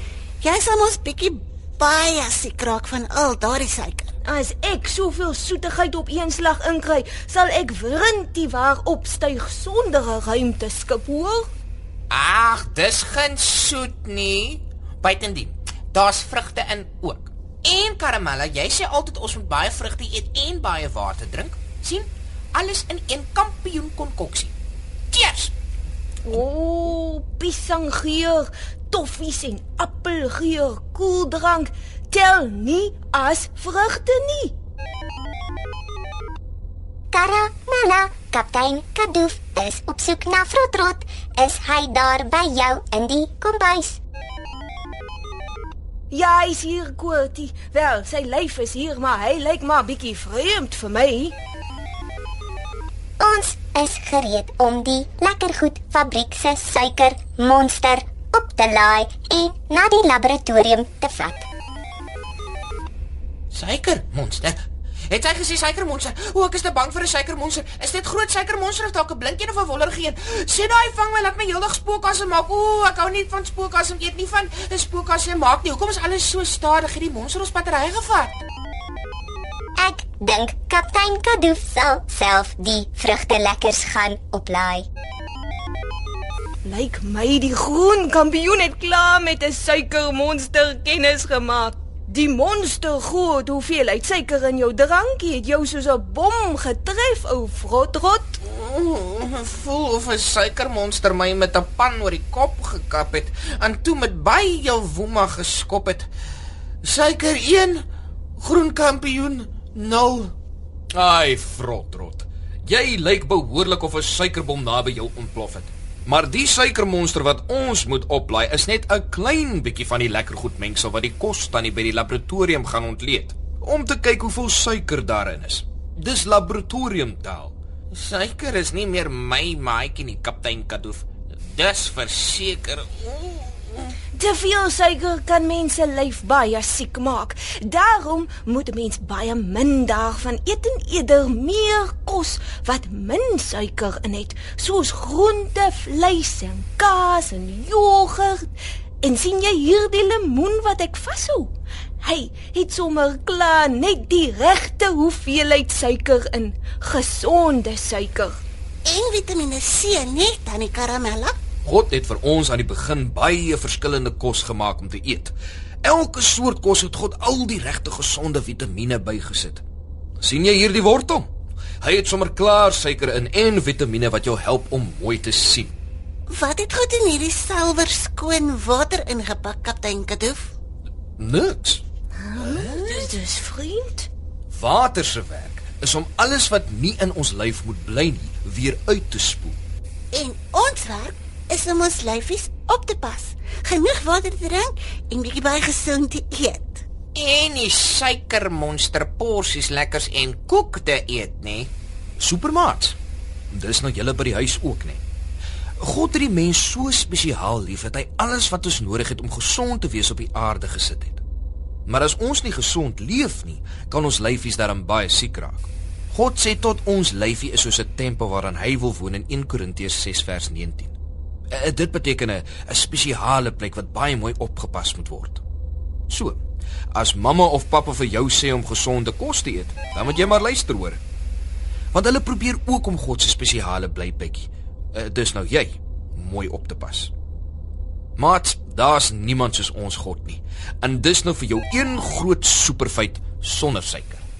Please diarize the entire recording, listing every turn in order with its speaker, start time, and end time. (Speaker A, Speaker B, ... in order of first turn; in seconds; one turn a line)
Speaker A: 0.4-4.1
Speaker B: 4.3-11.5
Speaker C: 12.1-24.5
Speaker C: 25.1-25.5
Speaker B: 26.2-34.5
Speaker D: 37.1-44.0
Speaker B: 46.1-51.4
Speaker D: 53.2-61.5
Speaker C: 63.5-78.4
Speaker D: 79.8-84.9
Speaker B: 86.6-98.4
Speaker C: 98.4-106.1
Speaker C: 106.8-107.8
Speaker C: 108.4-110.3
Speaker E: 110.9-127.5
Speaker C: 127.9-133.9
Speaker B: 134.1-148.5
Speaker B: 149.0-158.4
Speaker A: 158.9-161.4
Speaker E: 161.6-169.6
Speaker E: 170.2-171.3
Speaker E: 171.8-175.8
Speaker A: 176.3-180.5
Speaker E: 181.2-181.8
Speaker B: 182.2-184.1
Speaker E: 182.4-182.7
Speaker E: 184.5-189.6
Speaker A: 190.1-196.8
Speaker C: 197.2-201.7
Speaker E: 202.2-203.0
Speaker E: 203.5-205.0
Speaker E: 205.8-211.2
Speaker E: 211.9-220.9
Speaker E: 221.5-225.4
Speaker E: 226.1-226.4
Speaker E: 226.9-231.0
Speaker E: 231.9-237.1
Speaker E: 238.2-244.3